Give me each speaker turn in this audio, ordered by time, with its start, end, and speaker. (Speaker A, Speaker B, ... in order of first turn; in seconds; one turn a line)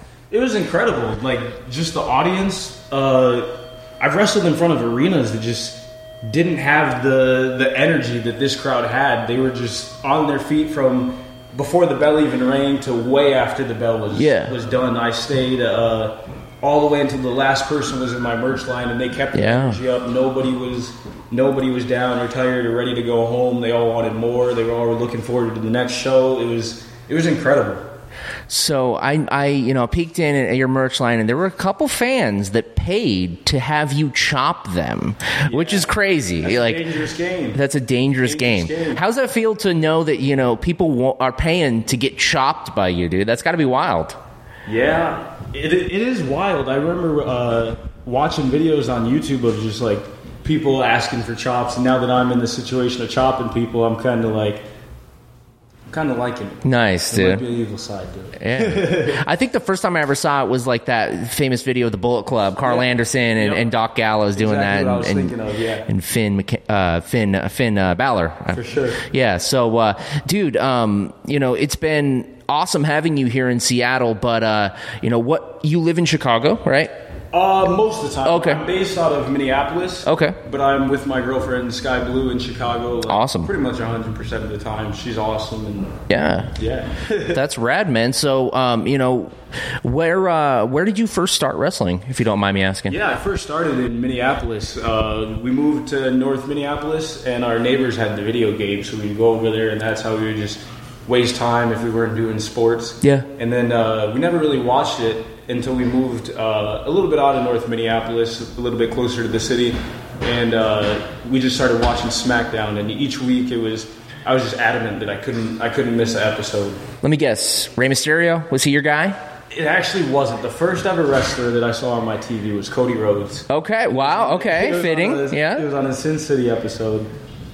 Speaker A: 0.3-27.9
Speaker B: 14.1-14.5
Speaker B: 19.3-19.8
Speaker B: 28.5-36.8
Speaker A: 35.5-37.6
Speaker B: 37.5-44.2
Speaker A: 38.2-39.0
Speaker A: 44.6-54.6
Speaker A: 55.9-59.2
Speaker B: 56.6-57.4
Speaker B: 58.4-65.3
Speaker A: 62.6-63.7
Speaker A: 64.3-65.9
Speaker B: 65.9-76.9
Speaker A: 68.5-69.0
Speaker A: 77.3-86.0
Speaker B: 78.2-78.6
Speaker B: 80.0-80.4
Speaker B: 83.1-83.5
Speaker B: 86.1-86.5
Speaker A: 86.5-87.4
Speaker B: 87.2-93.0
Speaker A: 92.9-116.8
Speaker B: 117.0-119.2
Speaker A: 119.5-127.1
Speaker B: 123.5-125.6